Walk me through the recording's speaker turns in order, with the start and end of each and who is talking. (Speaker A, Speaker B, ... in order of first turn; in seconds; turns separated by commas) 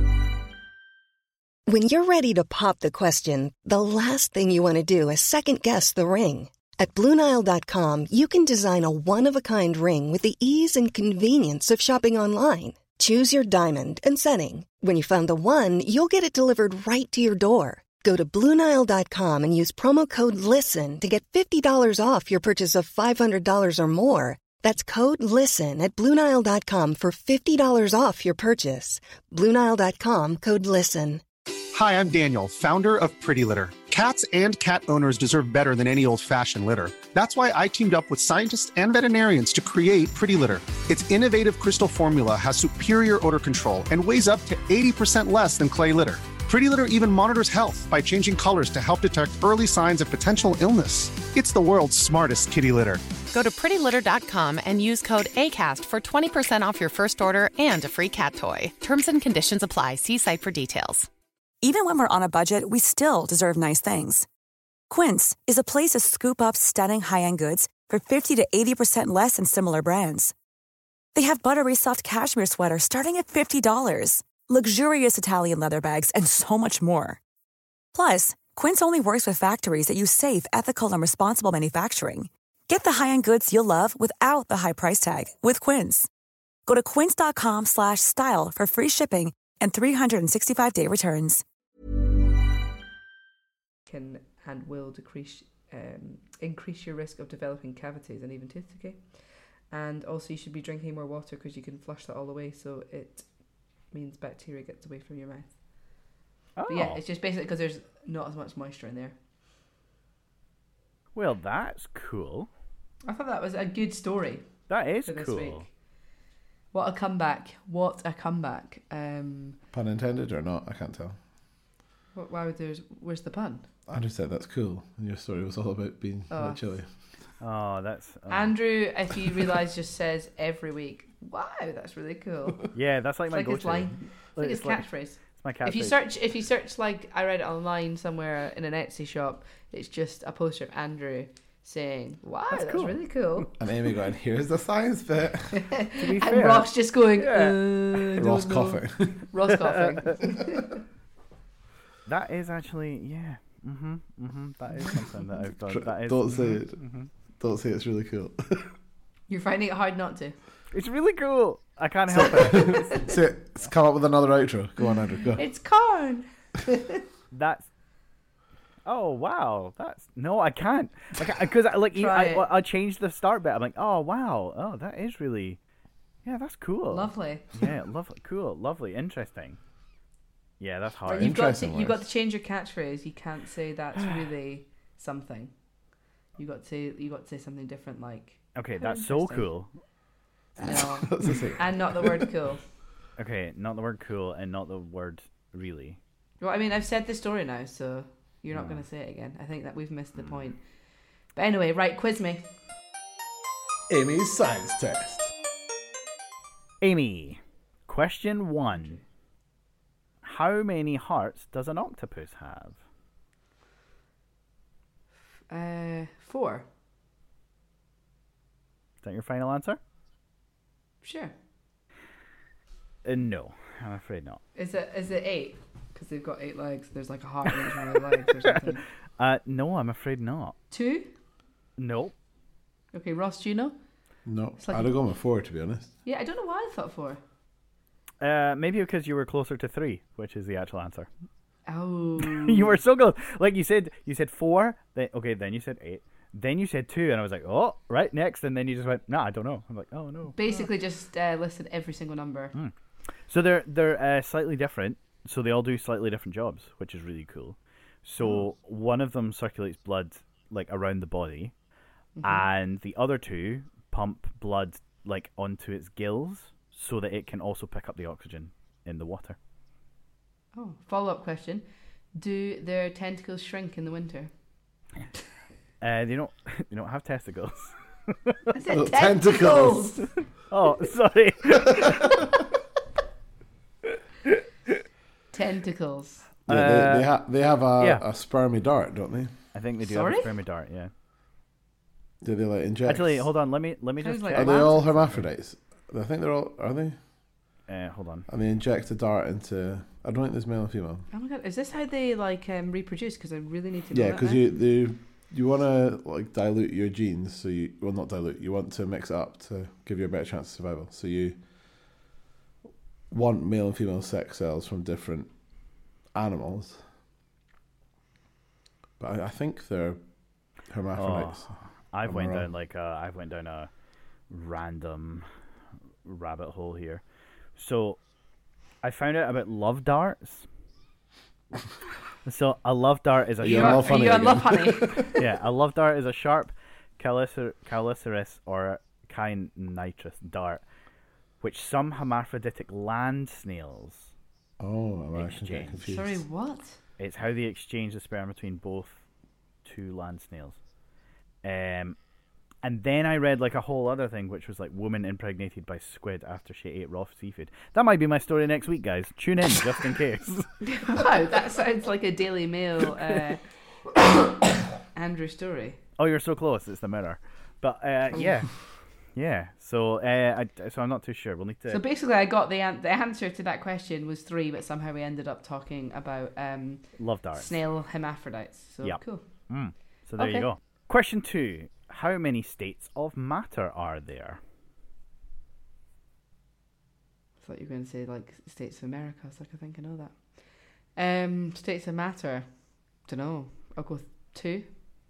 Speaker A: 1.7-31.2, Speaker B: 31.7-53.0, Speaker C: 53.3-61.1, Speaker D: 61.6-64.3, Speaker D: 64.9-70.3, Speaker D: 71.2-77.2, Speaker D: 77.9-86.1, Speaker D: 86.7-91.4, Speaker E: 93.9-99.0, Speaker E: 99.7-103.2, Speaker E: 103.9-105.5, Speaker F: 106.6-107.0, Speaker E: 106.7-109.2, Speaker F: 111.2-112.5, Speaker E: 113.1-114.5, Speaker F: 114.7-115.7, Speaker E: 115.0-115.7, Speaker E: 116.7-119.6, Speaker G: 119.7-121.2, Speaker E: 122.2-123.7, Speaker G: 123.9-126.9, Speaker E: 126.3-126.7, Speaker F: 127.4-128.6, Speaker E: 128.3-132.7, Speaker F: 132.7-136.0, Speaker E: 133.3-143.5, Speaker F: 142.5-143.0, Speaker G: 143.6-145.7, Speaker E: 145.6-150.8, Speaker F: 146.0-148.1, Speaker G: 148.2-149.2, Speaker F: 149.7-150.0, Speaker F: 152.1-157.1, Speaker G: 155.7-156.8, Speaker G: 157.4-158.7, Speaker E: 159.3-160.4, Speaker F: 160.7-162.9, Speaker G: 162.2-165.4, Speaker E: 162.7-163.1, Speaker E: 165.4-167.0, Speaker F: 167.3-167.7, Speaker F: 168.8-175.6, Speaker E: 171.9-172.5, Speaker F: 176.2-179.6, Speaker E: 176.9-177.6, Speaker F: 180.6-181.4, Speaker E: 181.1-185.5, Speaker G: 181.1-182.1, Speaker E: 186.4-189.5, Speaker F: 188.6-189.7, Speaker G: 190.6-192.3, Speaker E: 190.6-192.6, Speaker F: 193.2-196.0, Speaker E: 196.4-200.6, Speaker F: 198.5-198.8, Speaker E: 201.3-202.4, Speaker G: 203.9-205.3, Speaker F: 206.8-209.0, Speaker F: 210.2-212.8, Speaker E: 215.5-216.7, Speaker F: 219.0-219.8, Speaker E: 221.0-221.3, Speaker F: 223.0-224.4, Speaker E: 224.6-228.8, Speaker F: 229.2-230.6, Speaker E: 230.7-231.1, Speaker F: 231.8-232.1, Speaker E: 232.9-233.8, Speaker G: 234.3-235.9, Speaker E: 234.6-234.9, Speaker E: 236.1-237.2, Speaker F: 238.2-241.1, Speaker E: 241.7-242.8, Speaker F: 242.2-250.7, Speaker E: 250.3-252.5, Speaker F: 253.3-261.5, Speaker E: 262.2-262.5, Speaker F: 262.2-269.4, Speaker E: 270.6-274.3, Speaker F: 275.8-278.4, Speaker E: 278.5-280.1, Speaker G: 278.7-279.9, Speaker F: 280.5-282.3, Speaker G: 281.7-282.2, Speaker E: 285.3-286.3, Speaker G: 286.5-289.4, Speaker F: 286.5-287.1, Speaker F: 287.8-288.0, Speaker F: 289.5-290.9, Speaker E: 289.9-290.3, Speaker G: 292.2-293.3, Speaker F: 292.9-295.2, Speaker E: 294.0-294.9, Speaker G: 294.3-297.0, Speaker F: 297.7-298.3, Speaker G: 298.3-301.1, Speaker E: 301.1-304.4, Speaker G: 303.9-311.4, Speaker G: 313.1-315.3, Speaker G: 316.1-316.8, Speaker G: 319.0-320.0, Speaker G: 320.7-321.5, Speaker F: 321.0-323.7, Speaker G: 322.1-322.5, Speaker F: 324.3-325.3, Speaker F: 326.1-327.0, Speaker F: 327.6-328.0, Speaker F: 328.8-330.5, Speaker F: 332.2-334.1, Speaker G: 333.4-335.1, Speaker E: 333.4-335.1, Speaker F: 335.1-340.6, Speaker F: 341.4-344.1, Speaker G: 344.6-346.2, Speaker F: 345.2-345.9, Speaker E: 345.9-346.8, Speaker F: 347.0-349.0, Speaker F: 349.6-350.6, Speaker F: 351.4-352.0, Speaker F: 352.6-360.5, Speaker E: 360.6-363.4, Speaker E: 364.9-365.8, Speaker F: 366.0-368.5, Speaker F: 369.1-371.8, Speaker E: 371.7-379.3, Speaker F: 377.0-377.6, Speaker F: 378.8-384.4, Speaker E: 380.2-380.5, Speaker E: 387.4-390.4, Speaker E: 391.0-392.5, Speaker E: 393.1-394.7